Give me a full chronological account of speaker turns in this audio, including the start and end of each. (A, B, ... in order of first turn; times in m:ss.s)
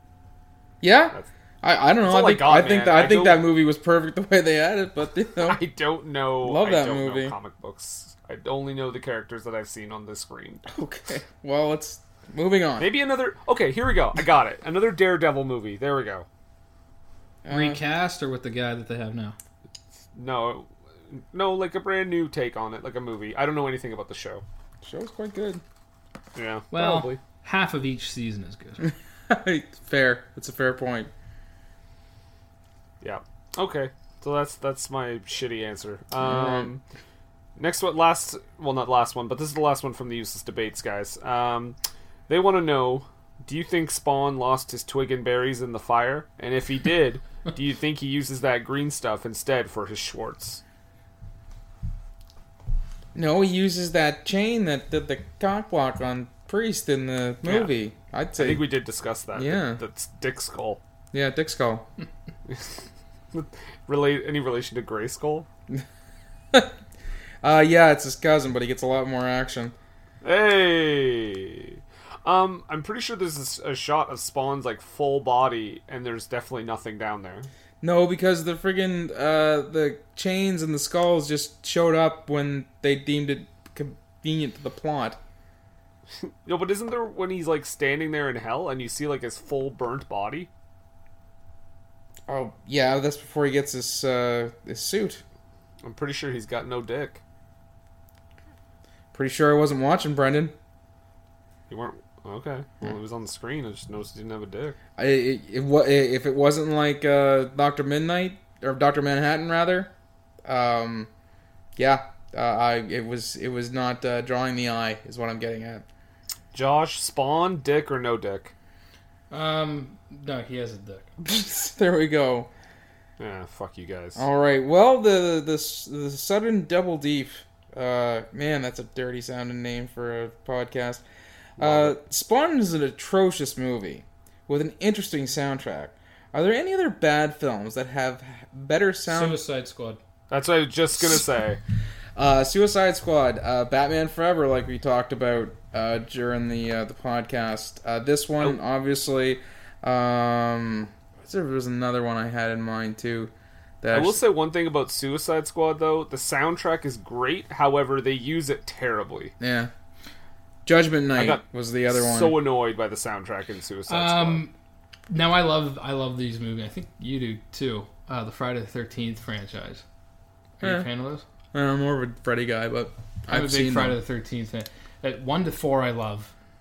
0:00.8-0:05.6 A
0:02.0-0:03.5 B
0:05.4-0:10.7 B
0:06.4-0:07.4 A
0:10.7-0:12.9 A
0:12.8-0:16.3 B
0:17.4-0:17.8 A
0:17.5-0:19.4 C
0:20.1-0:24.4 B
0:24.8-0:25.6 A
0:26.4-0:27.2 B
0:26.7-0:28.9 C
0:28.9-0:31.1 A
0:33.0-0:36.8 B
0:36.2-0:36.7 A
0:37.6-0:41.8 B
0:42.3-0:50.6 B
0:53.1-0:58.6 A
0:57.4-0:57.7 B
0:58.4-1:00.8 B
0:59.4-0:59.8 A
1:01.1-1:01.9 A
1:02.5-1:02.8 B
1:03.3-1:05.5 B
1:07.4-1:09.8 A
1:10.2-1:17.5 B
1:17.8-1:25.2 A
1:26.4-1:30.5 B
1:32.3-1:35.2 A
1:35.8-1:37.2 B
1:39.1-1:40.5 A
1:41.7-1:44.8 B
1:45.0-1:49.9 A
1:50.4-1:51.1 A
1:51.8-1:55.8 A
1:56.5-1:58.5 B
1:59.3-2:01.1 C
2:01.2-2:02.5 A
2:03.2-2:04.2 B
2:04.2-2:11.0 A
2:11.6-2:12.0 B
2:11.6-2:19.4 A
2:19.1-2:20.0 C
2:20.3-2:21.6 B
2:22.2-2:34.2 A
2:33.9-2:39.3 B
2:39.4-2:39.7 A
2:40.6-2:42.4 A
2:41.1-2:44.4 B
2:43.9-2:44.5 C
2:45.1-2:49.8 C
2:50.6-2:51.2 C
2:51.5-2:54.0 A
2:53.3-2:56.3 C